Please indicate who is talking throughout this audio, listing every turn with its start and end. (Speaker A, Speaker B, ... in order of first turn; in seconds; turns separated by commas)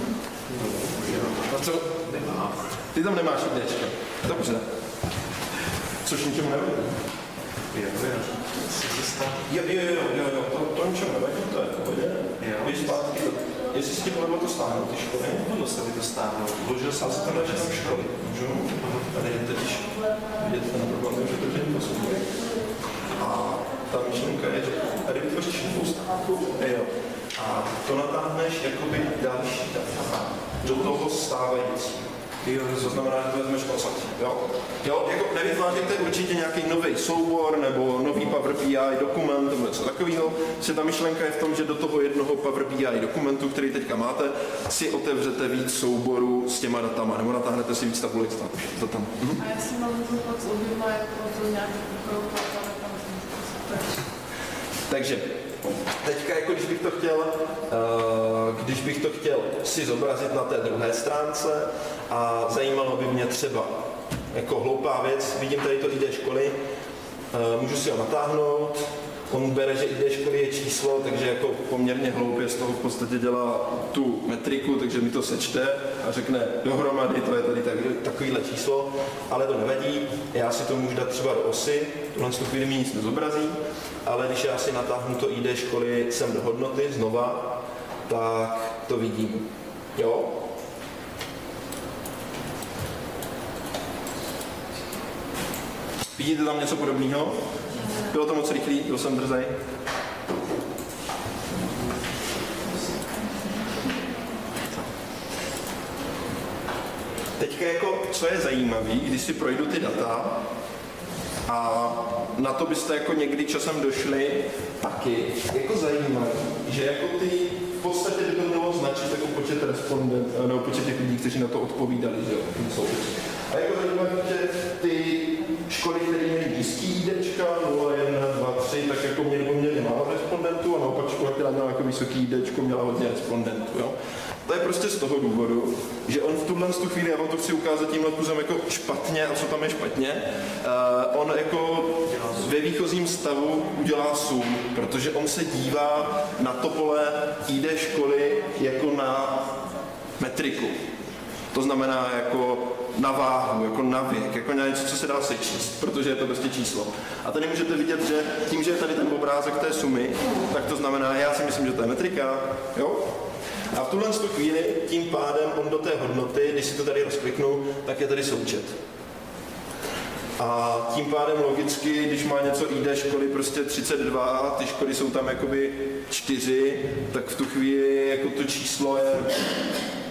Speaker A: 0.5-2.7, Speaker B: 2.9-4.7, Speaker B: 6.0-7.0, Speaker A: 7.7-9.4, Speaker B: 9.5-15.5, Speaker A: 12.4-12.7, Speaker A: 15.5-18.0, Speaker B: 16.9-22.4, Speaker B: 23.1-49.4, Speaker C: 49.4-54.1, Speaker B: 54.9-63.8, Speaker B: 64.3-66.5, Speaker B: 67.3-87.5, Speaker B: 88.1-89.5, Speaker B: 90.0-90.4, Speaker B: 96.2-99.5, Speaker B: 107.4-110.4, Speaker B: 111.5-133.9, Speaker B: 134.5-149.5, Speaker B: 150.2-150.8, Speaker B: 151.5-163.1, Speaker B: 163.7-168.8, Speaker B: 170.4-179.5